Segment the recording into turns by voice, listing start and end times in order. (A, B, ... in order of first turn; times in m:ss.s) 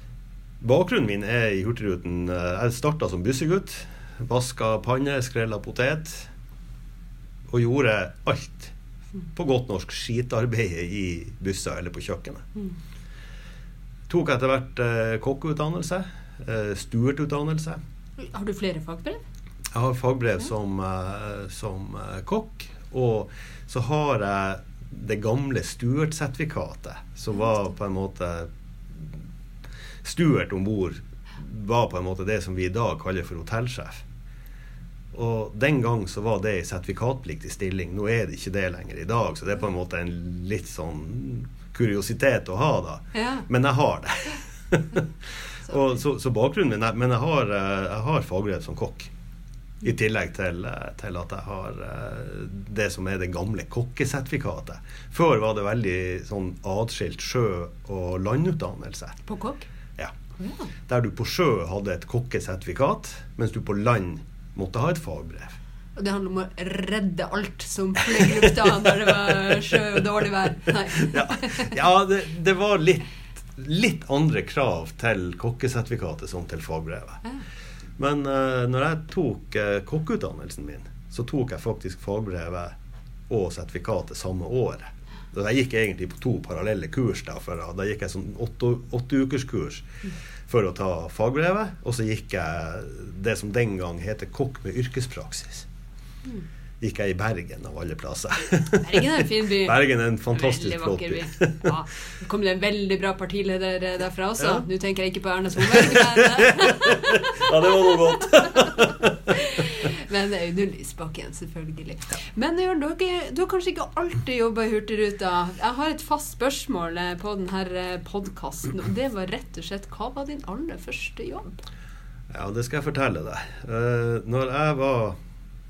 0:00.6-0:06.3 A
0:07.5-0:08.7 A
0:09.3-0:12.4 A
0:14.1-0:17.8 A
0:18.2-0:19.2 B
0:19.7-0:29.1 A
0:30.0-0:34.0 A
0:35.1-0:45.0 A
0:43.1-0:43.5 B
0:45.6-0:49.1 A
0:49.8-0:59.2 A
0:59.2-0:59.7 B
1:00.4-1:00.7 B
1:00.9-1:05.6 A
1:06.0-1:11.8 B
1:10.9-1:17.2 A
1:18.0-1:22.7 A
1:23.3-1:29.9 A
1:30.5-1:35.7 A
1:36.8-1:41.7 A
1:38.7-2:01.6 B
1:45.7-1:49.5 A
2:02.3-2:05.2 A